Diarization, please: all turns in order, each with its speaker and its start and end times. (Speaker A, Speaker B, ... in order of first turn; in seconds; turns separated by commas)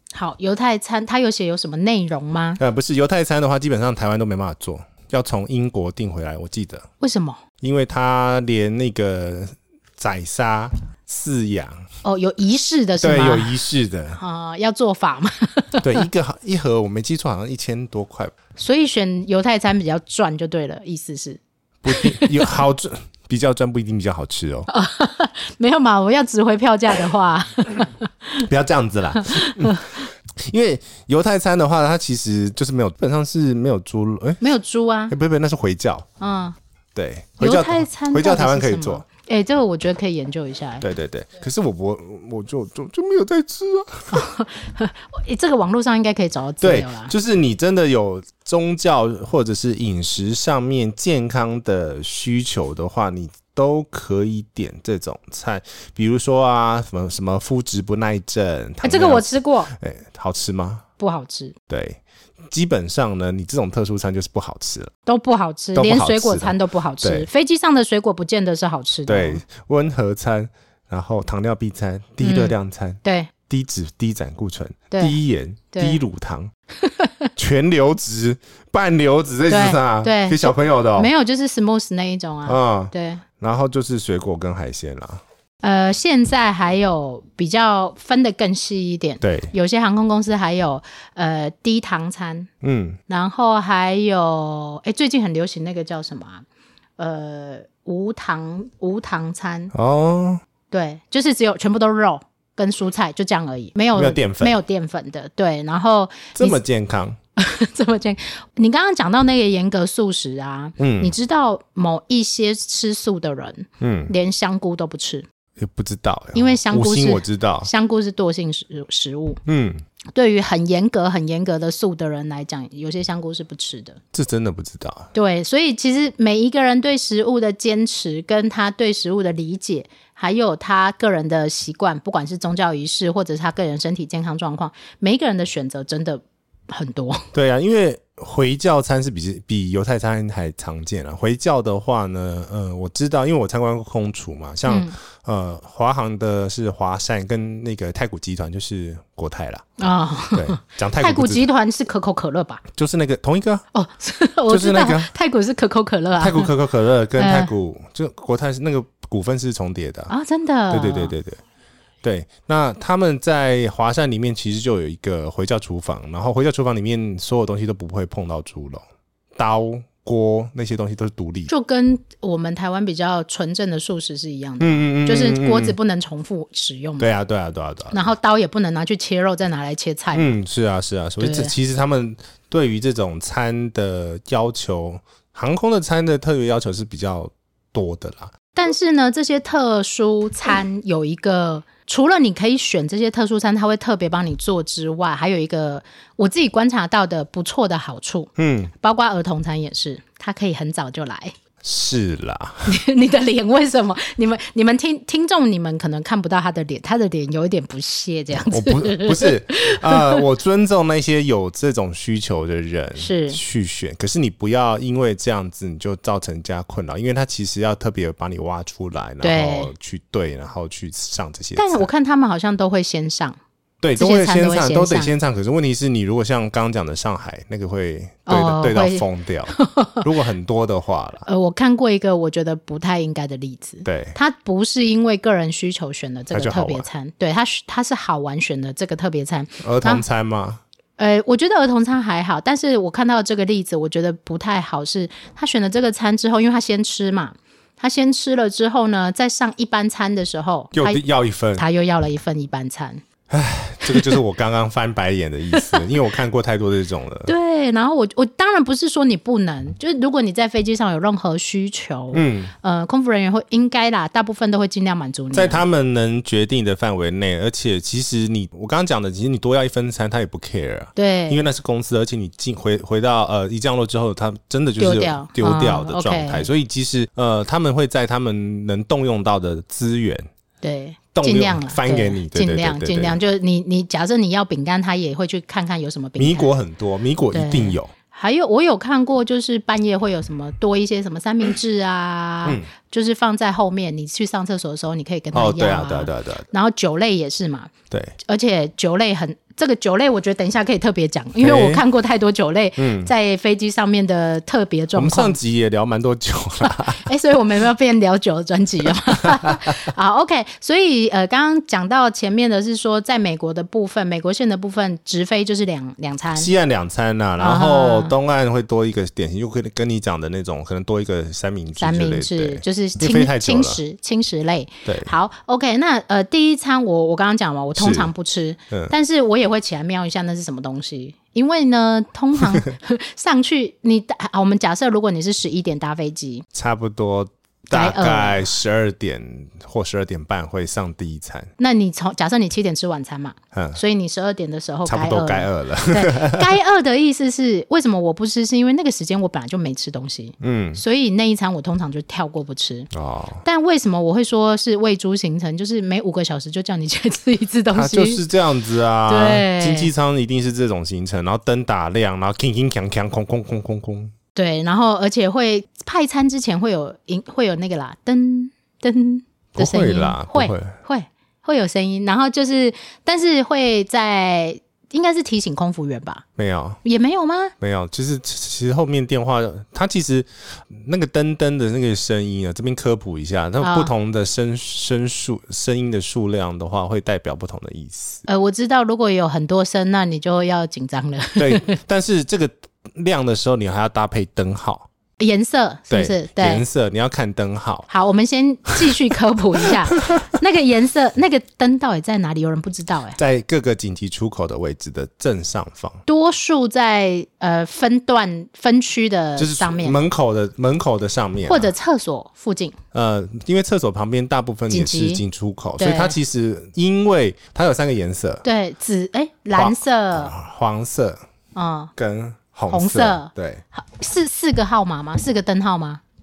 Speaker A: 0.1-2.6, Speaker B: 2.6-6.9, Speaker A: 7.0-7.4, Speaker B: 7.6-11.8, Speaker A: 12.0-13.6, Speaker B: 13.0-14.2, Speaker A: 14.2-16.1, Speaker B: 15.8-18.4, Speaker A: 18.6-22.5, Speaker B: 21.8-24.7, Speaker A: 24.7-28.5, Speaker B: 28.4-29.8, Speaker A: 29.2-30.1, Speaker B: 30.4-34.4, Speaker A: 34.4-35.1, Speaker B: 35.1-36.1, Speaker A: 36.2-36.6, Speaker B: 37.0-39.0, Speaker A: 37.4-40.9, Speaker B: 40.8-44.2, Speaker A: 44.1-47.1, Speaker B: 46.6-60.8, Speaker A: 58.8-59.7, Speaker A: 61.0-61.5, Speaker B: 61.7-64.9, Speaker A: 65.1-69.4, Speaker B: 65.8-67.3, Speaker B: 69.1-76.5, Speaker A: 72.2-73.3, Speaker A: 74.9-75.2, Speaker A: 75.7-76.0, Speaker A: 76.8-77.3, Speaker B: 77.4-81.1, Speaker A: 79.5-83.2, Speaker B: 82.5-85.2, Speaker A: 85.6-92.5, Speaker B: 89.2-89.5, Speaker B: 92.6-93.0, Speaker A: 93.1-96.5, Speaker A: 97.0-99.7, Speaker B: 99.7-100.4, Speaker A: 100.7-106.6, Speaker B: 104.0-104.6, Speaker B: 106.4-107.2, Speaker A: 107.4-115.3, Speaker B: 110.8-111.1, Speaker B: 113.8-114.1, Speaker B: 115.6-117.7, Speaker A: 116.3-119.4, Speaker B: 119.5-119.8, Speaker A: 120.1-124.0, Speaker B: 124.1-125.1, Speaker A: 125.1-137.3, Speaker B: 137.3-149.6, Speaker A: 144.7-144.9, Speaker A: 149.8-152.6, Speaker B: 150.3-151.5, Speaker B: 152.8-153.7, Speaker A: 153.7-156.5, Speaker B: 154.5-155.1, Speaker B: 156.2-160.1, Speaker A: 157.2-157.5, Speaker A: 160.1-161.2, Speaker B: 160.7-161.4, Speaker B: 162.0-168.8, Speaker B: 169.3-171.5, Speaker A: 171.5-177.1, Speaker B: 174.6-175.8, Speaker B: 177.0-178.0, Speaker A: 177.9-180.3, Speaker B: 180.1-188.3, Speaker A: 181.2-181.5, Speaker A: 188.5-201.3, Speaker B: 198.4-198.7, Speaker B: 201.6-202.7, Speaker A: 202.7-210.2, Speaker B: 208.5-221.9, Speaker A: 213.0-213.4, Speaker A: 219.2-219.7, Speaker A: 221.6-223.4, Speaker B: 223.8-231.3, Speaker A: 224.0-225.1, Speaker A: 228.3-230.1, Speaker A: 231.3-240.0, Speaker B: 233.8-234.2, Speaker B: 236.3-236.9, Speaker B: 239.6-240.6, Speaker A: 241.0-251.0, Speaker B: 250.7-251.6, Speaker A: 251.6-253.0, Speaker B: 253.3-257.3, Speaker A: 253.9-254.2, Speaker A: 255.5-255.9, Speaker A: 257.3-265.6, Speaker B: 262.1-262.5, Speaker B: 265.3-280.2, Speaker A: 271.0-271.4, Speaker A: 274.8-276.5, Speaker A: 280.6-286.5, Speaker B: 281.1-283.2, Speaker B: 286.2-287.9, Speaker A: 287.3-297.7, Speaker B: 295.3-296.5, Speaker A: 298.2-305.4, Speaker B: 301.4-301.8, Speaker B: 302.8-303.1, Speaker B: 304.9-307.1, Speaker A: 306.6-316.5, Speaker B: 309.2-309.7, Speaker B: 316.4-323.8, Speaker A: 317.4-318.1, Speaker A: 321.8-336.4, Speaker B: 324.9-325.1, Speaker B: 327.8-328.1, Speaker B: 336.5-341.5, Speaker A: 337.7-338.5, Speaker A: 341.6-352.9, Speaker B: 343.5-343.8, Speaker B: 344.9-346.5, Speaker B: 350.4-350.8, Speaker B: 352.9-353.4, Speaker A: 353.4-358.2, Speaker B: 357.7-364.1, Speaker A: 359.1-359.9, Speaker A: 364.4-376.2, Speaker B: 369.6-370.7, Speaker B: 376.4-376.8, Speaker A: 376.8-377.5, Speaker B: 377.6-388.2, Speaker A: 383.6-383.9, Speaker A: 388.3-391.8, Speaker B: 391.4-394.9, Speaker A: 395.2-396.7, Speaker B: 395.9-397.9, Speaker A: 397.9-403.2, Speaker B: 400.0-400.2, Speaker B: 403.2-406.0, Speaker A: 406.1-410.0, Speaker B: 409.4-411.7, Speaker A: 411.5-412.8, Speaker B: 412.9-418.4, Speaker A: 414.7-415.2, Speaker A: 415.8-416.2, Speaker A: 418.4-420.3, Speaker B: 419.5-421.2, Speaker A: 421.6-421.9, Speaker B: 422.0-423.6, Speaker A: 422.7-426.0